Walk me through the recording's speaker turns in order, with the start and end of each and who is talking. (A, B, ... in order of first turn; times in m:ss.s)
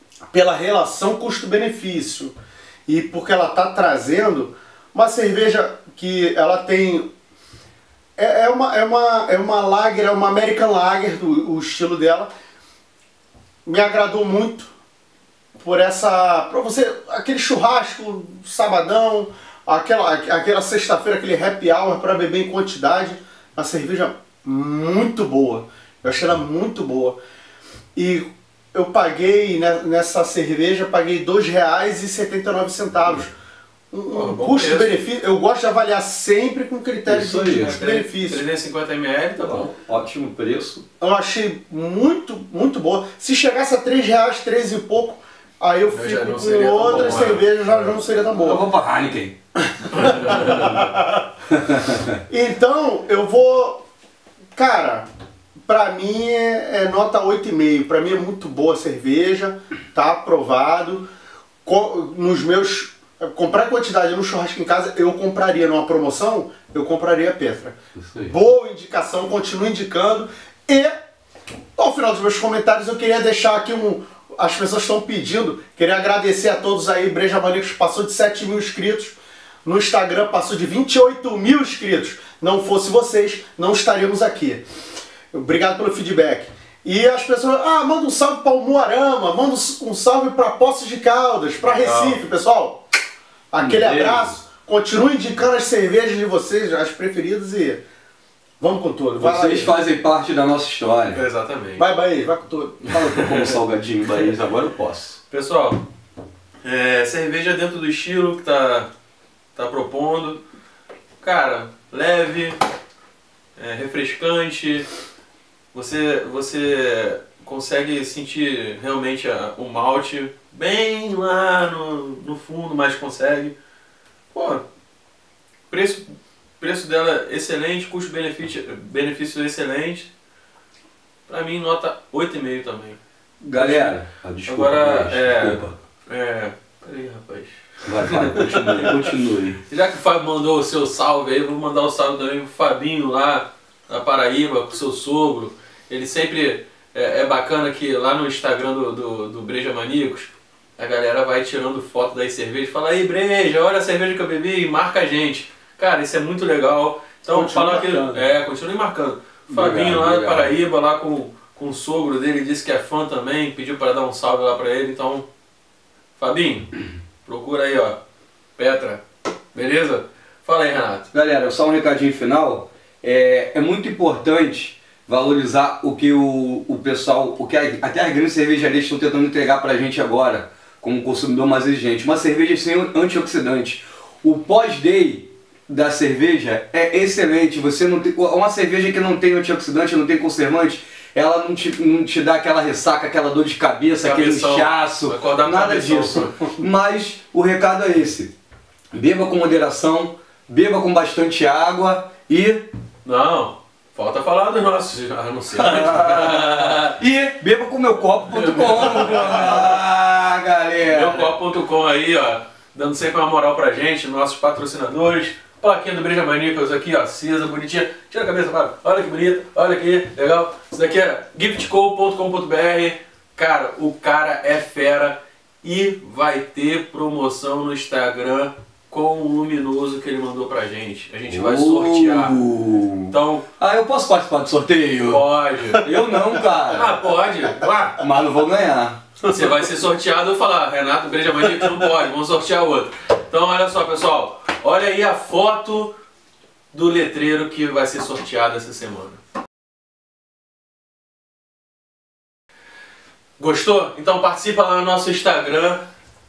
0:00.3-0:02.4 A
0:02.9-0:07.1 A
0:08.2-0:12.3 A
0:13.7-0:14.7 A
0:15.6-0:27.2 A
0:28.0-0:33.3 A
0:33.9-0:38.4 A
0:34.1-0:35.0 B
0:37.0-0:37.8 C
0:37.5-0:39.7 B
0:39.4-0:40.9 C
0:41.0-0:48.7 A
0:45.9-0:47.5 B
0:46.9-0:47.4 C
0:48.3-0:49.3 C
0:49.8-0:51.2 A
0:50.0-0:50.7 B
0:50.3-0:50.9 C
0:51.5-0:52.0 C
0:52.3-0:53.8 A
0:54.6-0:55.1 A
0:55.7-1:01.1 A
1:01.6-1:10.9 A
1:08.0-1:08.3 C
1:11.8-1:24.6 A
1:25.3-1:32.8 A
1:31.7-1:32.2 B
1:33.5-1:37.8 A
1:33.6-1:34.4 C
1:38.6-1:39.7 A
1:39.2-1:41.2 C
1:41.1-1:41.8 B
1:41.8-1:42.8 A
1:42.8-1:45.2 C
1:42.9-1:43.6 B
1:45.3-1:45.8 B
1:46.6-1:48.9 B
1:49.6-1:50.4 B
1:51.2-1:52.6 B
1:53.6-1:54.9 B
1:55.7-2:03.6 B
2:04.3-2:04.6 B
2:05.7-2:06.0 B
2:06.6-2:10.1 B
2:11.3-2:13.0 B
2:13.4-2:15.8 C
2:13.5-2:19.2 B
2:17.9-2:19.6 C
2:19.7-2:45.3 B
2:37.3-2:38.3 C
2:39.5-2:40.6 C
2:46.2-2:46.7 B
2:47.2-2:48.0 B
2:48.6-2:49.0 B
2:49.5-2:51.1 B
2:51.1-3:18.3 C
3:14.0-3:16.4 B
3:18.9-3:22.6 C
3:23.0-3:27.0 B
3:25.5-3:31.3 C
3:28.2-3:29.8 B
3:30.9-3:52.4 B
3:51.3-3:55.2 C
3:53.1-3:53.5 B
3:55.0-3:55.9 B
3:55.7-3:57.0 C
3:56.7-3:58.0 B
3:58.0-3:59.0 C
3:59.2-4:06.0 B
4:06.7-4:09.2 B
4:13.4-4:15.9 B